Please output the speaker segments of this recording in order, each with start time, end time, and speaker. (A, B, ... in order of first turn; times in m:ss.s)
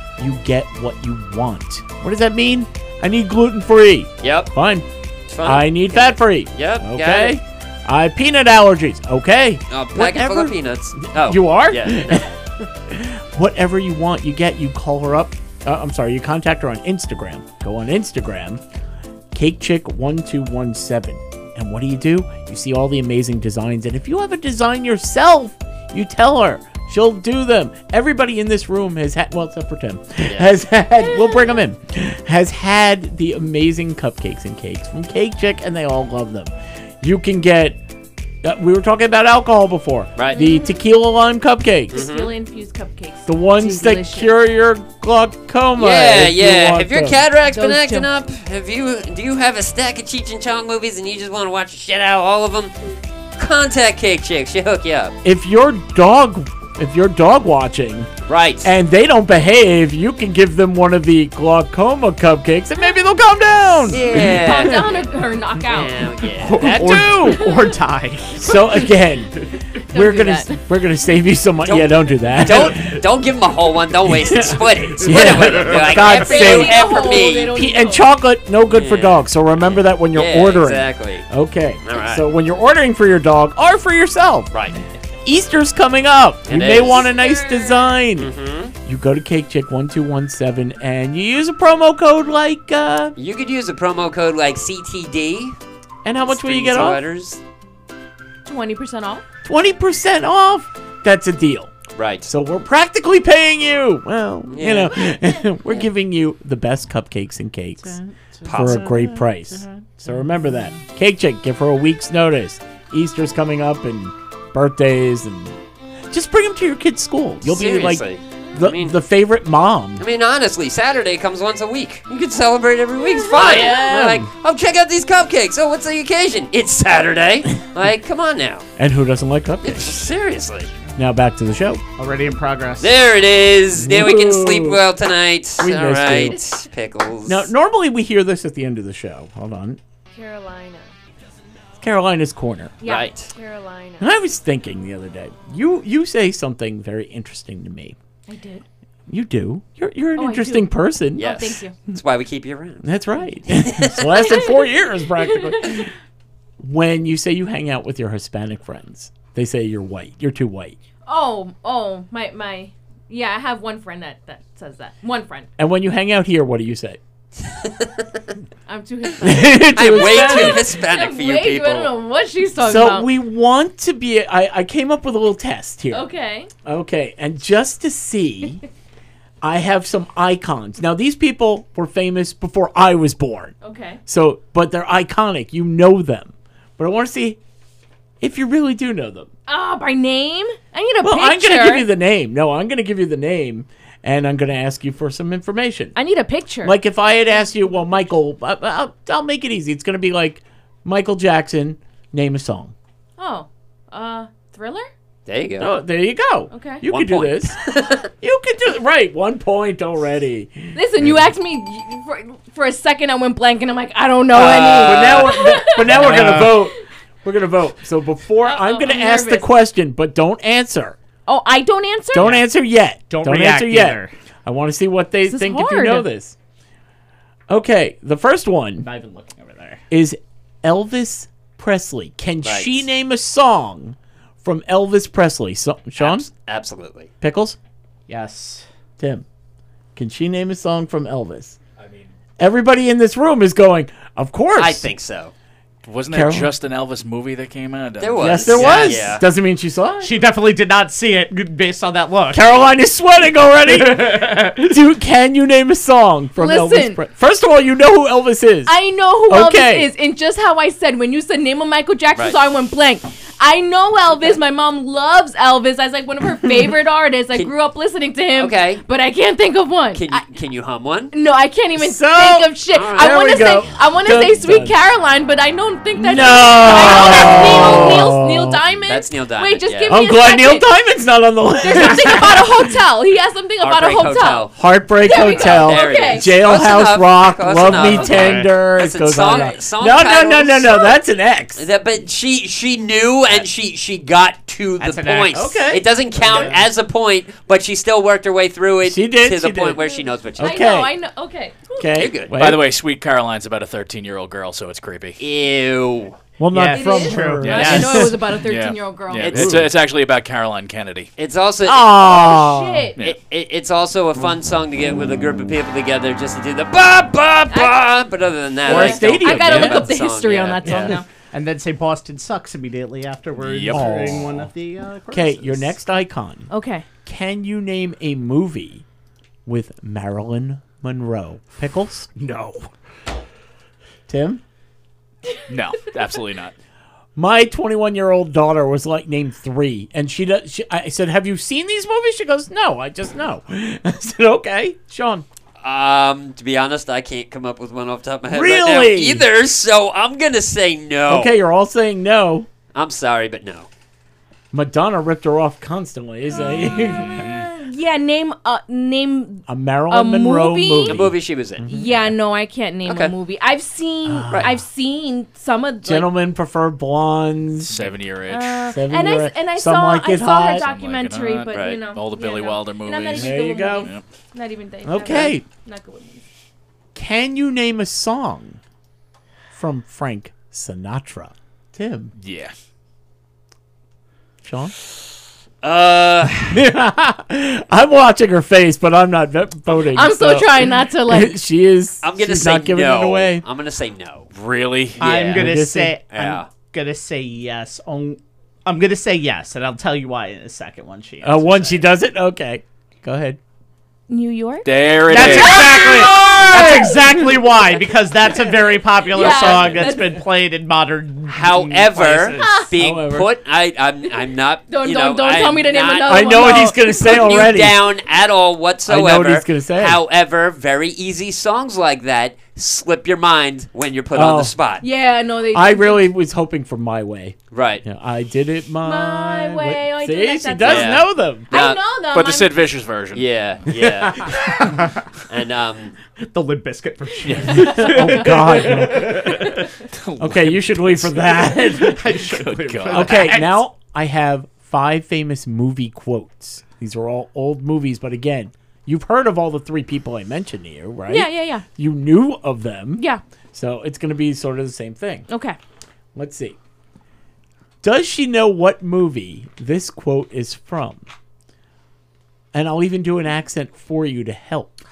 0:00.2-0:04.9 A
0:04.2-0:04.5 B
0:05.3-0:07.4 B
0:05.4-0:18.6 A
0:09.7-0:12.3 B
0:19.3-0:37.8 A
0:30.3-0:30.5 B
0:38.4-0:42.0 A
0:40.3-0:40.8 C
0:41.9-0:44.4 C
0:41.9-0:42.3 B
0:43.3-0:47.2 A
0:45.8-0:52.7 B
0:47.5-0:48.1 C
0:53.4-0:55.2 B
0:55.2-0:58.1 A
0:58.3-0:58.7 B
0:58.6-1:04.8 A
1:03.9-1:05.1 B
1:04.2-1:06.1 C
1:05.6-1:07.3 B
1:06.4-1:08.6 D
1:06.6-1:07.5 A
1:07.3-1:07.7 C
1:08.4-1:13.0 A
1:09.9-1:10.6 C
1:11.6-1:17.6 B
1:14.1-1:24.5 A
1:15.1-1:15.8 D
1:16.0-1:18.1 C
1:18.7-1:21.3 B
1:21.8-1:22.2 B
1:24.5-1:24.8 B
1:25.2-1:28.3 A
1:26.5-1:27.1 B
1:26.7-1:28.0 C
1:28.2-1:28.7 B
1:28.8-1:33.1 A
1:33.2-1:35.6 B
1:36.0-1:37.0 A
1:36.3-1:37.4 B
1:38.4-1:39.2 C
1:39.4-1:41.7 A
1:41.9-1:42.3 B
1:42.3-1:47.9 A
1:44.5-1:45.1 B
1:47.8-1:50.8 D
1:48.4-1:49.0 B
1:48.5-1:55.6 A
1:56.1-2:00.0 A
1:57.4-1:59.0 B
2:00.0-2:08.6 B
2:03.1-2:03.9 C
2:03.3-2:04.3 A
2:08.8-2:10.0 A
2:09.6-2:10.7 B
2:11.0-2:11.8 A
2:12.0-2:13.0 D
2:12.8-2:17.5 B
2:13.8-2:14.8 A
2:15.6-2:16.4 A
2:17.3-2:19.8 A
2:20.2-2:20.8 C
2:21.8-2:22.8 A
2:22.8-2:24.0 C
2:22.8-2:23.3 B
2:24.0-2:28.0 A
2:28.3-2:28.6 C
2:29.1-2:31.3 A
2:30.2-2:31.7 C
2:31.2-2:34.2 B
2:32.8-2:35.9 A
2:35.4-2:35.9 C
2:36.6-2:40.8 A
2:41.1-2:45.5 C
2:45.6-2:47.0 A
2:47.6-2:48.1 B
2:48.7-2:53.1 C
2:49.2-2:50.7 A
2:49.7-2:51.9 B
2:52.6-2:56.1 A
2:55.9-2:56.5 C
2:56.6-2:58.6 A
2:59.4-3:03.5 A
3:03.6-3:04.0 C
3:04.1-3:07.4 A
3:08.2-3:09.3 A
3:09.5-3:11.9 C
3:11.0-3:15.9 A
3:16.0-3:16.8 C
3:16.6-3:22.7 A
3:23.2-3:24.9 C
3:25.3-3:25.8 B
3:25.6-3:27.6 A
3:26.5-3:26.8 C
3:26.9-3:28.1 B
3:28.2-3:31.0 A
3:30.7-3:36.2 C
3:34.3-3:41.0 A
3:34.4-3:35.1 B
3:35.8-3:36.6 D
3:38.4-3:39.5 C
3:41.3-3:42.3 C
3:42.1-3:46.4 A
3:42.2-3:42.4 D
3:43.1-3:44.1 D
3:45.3-3:46.1 C
3:47.5-3:48.9 A
3:48.8-3:49.8 D
3:49.9-3:56.3 A
3:52.4-3:52.8 B
3:56.0-3:57.1 B
3:57.2-3:57.6 A
3:58.1-3:58.7 D
3:59.0-3:59.2 A
4:00.0-4:01.6 A
4:01.8-4:02.1 E
4:02.4-4:04.9 A
4:04.6-4:05.3 B
4:05.9-4:09.0 E
4:06.1-4:06.5 A
4:08.0-4:09.2 B
4:08.2-4:10.2 A
4:10.0-4:12.5 D
4:12.3-4:18.7 A
4:13.7-4:14.6 D
4:16.4-4:17.0 C
4:18.7-4:30.2 C
4:19.3-4:19.9 A
4:28.4-4:28.8 B
4:29.9-4:31.1 B
4:31.1-4:40.7 C
4:31.8-4:34.8 A
4:32.7-4:33.5 B
4:36.0-4:38.6 A
4:36.6-4:38.0 B
4:38.9-4:40.0 B
4:39.9-4:42.8 A
4:41.6-4:44.5 C
4:43.6-4:44.6 B
4:44.6-4:51.6 A
4:45.0-4:46.4 C
4:45.1-4:50.8 B
4:47.7-4:48.5 D
4:51.6-5:00.7 B
4:54.8-4:56.6 D
4:55.3-4:56.5 A
4:58.8-4:59.8 A
4:59.8-5:02.0 C
5:00.4-5:00.9 A
5:01.8-5:02.7 A
5:02.0-5:02.3 B
5:02.4-5:05.2 E
5:05.2-5:06.2 B
5:06.4-5:08.2 A
5:06.5-5:08.1 D
5:06.7-5:09.5 C
5:07.5-5:11.1 E
5:09.2-5:09.6 B
5:09.3-5:09.7 A
5:11.2-5:12.0 B
5:11.6-5:12.9 A
5:12.0-5:13.0 C
5:13.0-5:21.0 B
5:17.5-5:17.8 C
5:18.6-5:20.0 A
5:18.7-5:21.1 C
5:20.6-5:21.0 A
5:21.3-5:25.7 D
5:23.4-5:24.5 E
5:23.7-5:24.4 A
5:25.1-5:26.5 A
5:26.5-5:26.9 C
5:27.0-5:28.8 A
5:29.5-5:32.1 A
5:32.2-5:32.7 D
5:34.1-5:34.4 A
5:35.5-5:36.5 E
5:37.2-5:45.3 A
5:45.6-5:51.3 B
5:48.3-5:49.3 A
5:51.1-5:52.5 A
5:52.7-5:53.7 B
5:54.5-5:57.3 A
5:57.2-6:01.0 C
5:59.5-6:02.1 A
6:00.8-6:01.7 B
6:01.7-6:06.1 C
6:02.9-6:03.1 B
6:04.1-6:04.5 A
6:04.3-6:04.6 B
6:05.8-6:07.9 A
6:07.6-6:08.8 E
6:08.3-6:16.2 C
6:08.7-6:10.7 A
6:10.6-6:14.0 E
6:11.5-6:11.8 B
6:13.1-6:13.9 A
6:14.8-6:15.4 A
6:17.0-6:18.6 A
6:19.5-6:22.1 A
6:22.2-6:22.5 E
6:24.4-6:24.7 A
6:25.6-6:26.6 B
6:26.5-6:33.4 A
6:29.9-6:31.4 C
6:32.0-6:34.3 B
6:34.3-6:35.1 E
6:35.0-6:35.5 B
6:35.0-6:41.9 D
6:35.3-6:36.0 A
6:36.1-6:36.5 B
6:41.2-6:43.4 A
6:44.1-6:47.1 C
6:44.6-6:45.9 E
6:45.1-6:52.7 D
6:45.8-6:47.2 A
6:49.1-6:50.2 C
6:51.3-7:04.8 B
6:52.4-6:52.7 C
6:52.8-6:53.3 A
6:54.7-6:57.1 C
6:56.0-6:57.8 A
6:58.9-7:00.0 A
7:04.1-7:04.6 A
7:04.8-7:06.1 C
7:05.5-7:11.5 A
7:07.5-7:07.8 B
7:08.8-7:12.5 C
7:10.6-7:11.8 B
7:12.1-7:13.3 E
7:13.1-7:14.4 B
7:14.4-7:15.1 D
7:15.3-7:16.0 B
7:16.2-7:19.7 D
7:17.3-7:17.6 E
7:17.5-7:19.6 A
7:19.5-7:21.5 E
7:20.2-7:22.0 A
7:21.8-7:23.6 D
7:22.2-7:23.4 E
7:22.9-7:35.3 A
7:31.1-7:31.6 C
7:35.3-7:35.6 C
7:36.2-7:36.6 A
7:37.8-7:41.0 A
7:42.5-7:44.8 A